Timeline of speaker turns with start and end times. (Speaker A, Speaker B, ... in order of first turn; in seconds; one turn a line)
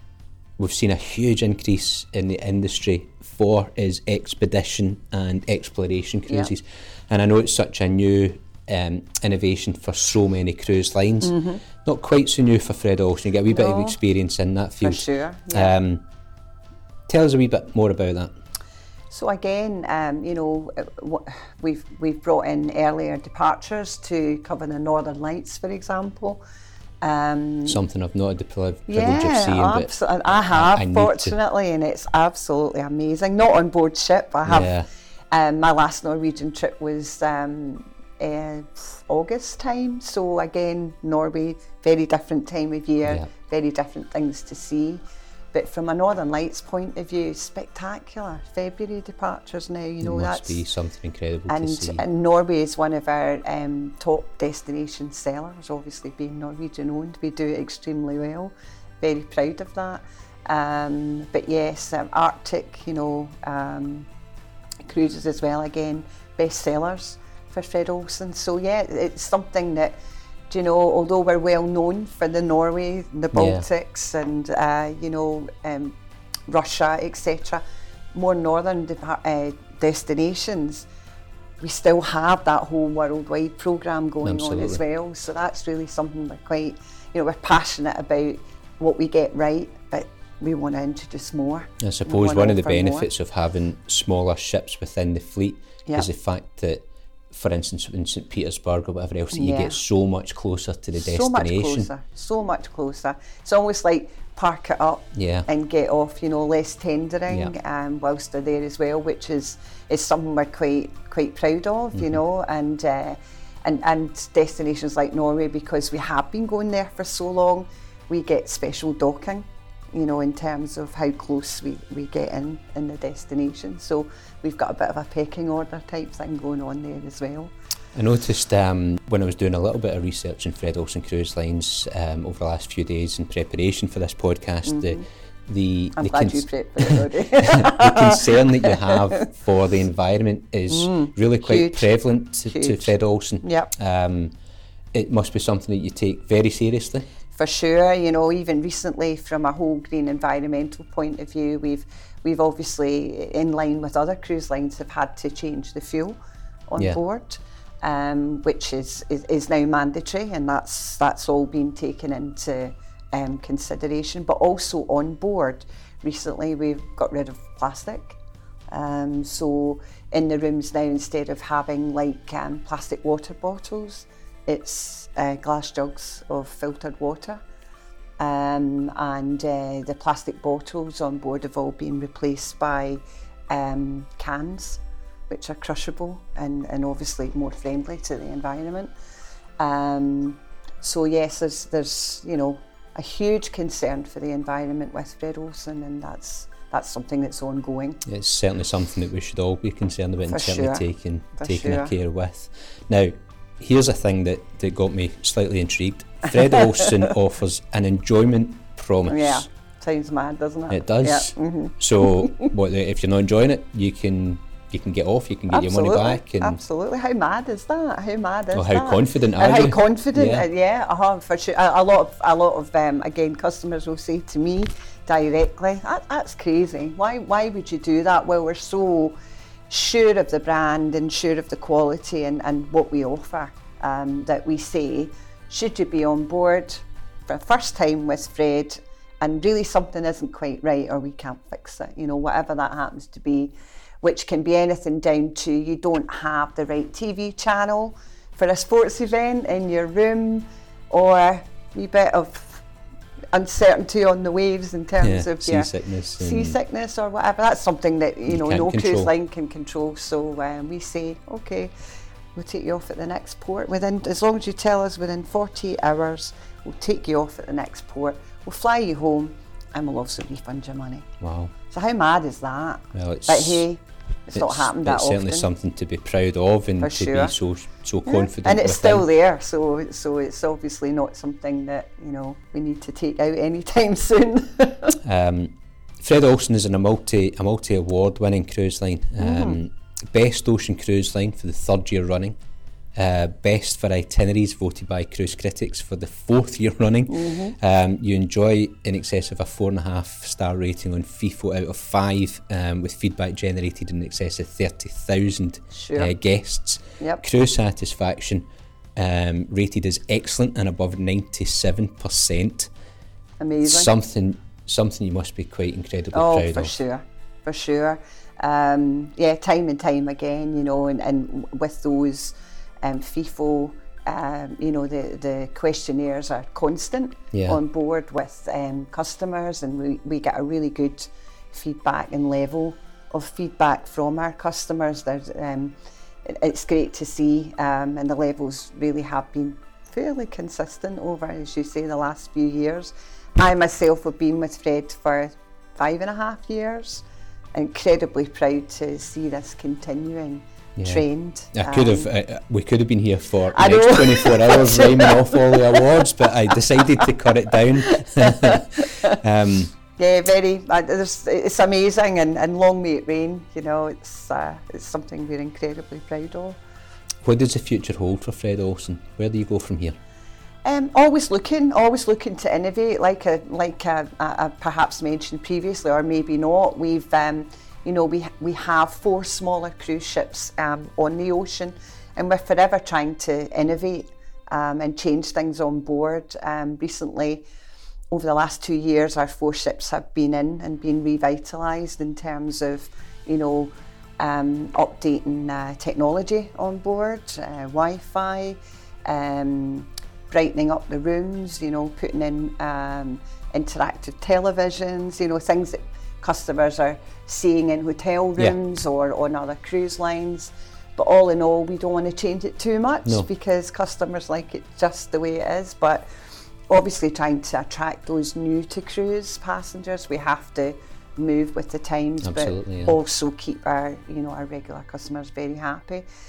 Speaker A: 0.6-16.0
Speaker B: 11.2-11.6
Speaker B: 13.5-14.0
Speaker B: 14.8-15.8
Speaker A: 17.1-18.3
Speaker B: 19.1-26.4
Speaker B: 27.0-27.8
Speaker A: 27.7-29.9
Speaker B: 28.9-34.7
Speaker A: 30.5-31.4
Speaker A: 34.5-34.9
Speaker B: 35.3-50.6
Speaker A: 50.0-52.0
Speaker B: 51.5-64.1
Speaker B: 64.8-70.0
Speaker B: 70.5-75.9
Speaker A: 73.3-73.7
Speaker B: 76.5-80.8
Speaker B: 81.6-93.1
Speaker A: 84.2-84.8
Speaker A: 91.8-101.9
Speaker B: 99.3-99.8
Speaker B: 101.0-127.5
Speaker A: 105.1-105.5
Speaker A: 127.9-144.3
Speaker B: 134.6-135.0
Speaker B: 135.9-139.2
Speaker B: 140.7-141.9
Speaker B: 142.4-143.7
Speaker A: 144.9-147.1
Speaker B: 147.3-168.2
Speaker B: 168.7-177.4
Speaker B: 178.2-188.9
Speaker B: 189.6-198.0
Speaker A: 198.0-209.4
Speaker B: 200.2-201.9
Speaker B: 206.5-206.9
Speaker B: 209.1-212.5
Speaker A: 210.7-216.6
Speaker B: 215.5-229.1
Speaker A: 218.5-220.4
Speaker B: 229.7-252.6
Speaker B: 253.3-261.7
Speaker A: 255.0-256.6
Speaker A: 258.3-259.1
Speaker B: 262.3-271.1
Speaker A: 271.2-271.5
Speaker B: 271.7-275.5
Speaker A: 272.9-273.6
Speaker A: 274.3-279.1
Speaker B: 276.8-277.3
Speaker B: 278.0-285.0
Speaker A: 285.0-292.4
Speaker B: 289.2-289.6
Speaker A: 292.9-312.7
Speaker B: 297.1-297.5
Speaker B: 305.7-306.1
Speaker B: 313.4-313.9
Speaker A: 313.6-316.7
Speaker B: 316.1-352.1
Speaker A: 327.3-327.6
Speaker A: 350.8-359.7
Speaker B: 353.5-356.0
Speaker B: 356.8-357.1
Speaker B: 357.9-359.2
Speaker B: 359.9-366.6
Speaker A: 367.2-370.0
Speaker B: 370.6-387.4
Speaker B: 388.1-416.1
Speaker B: 416.7-426.0
Speaker A: 422.2-422.9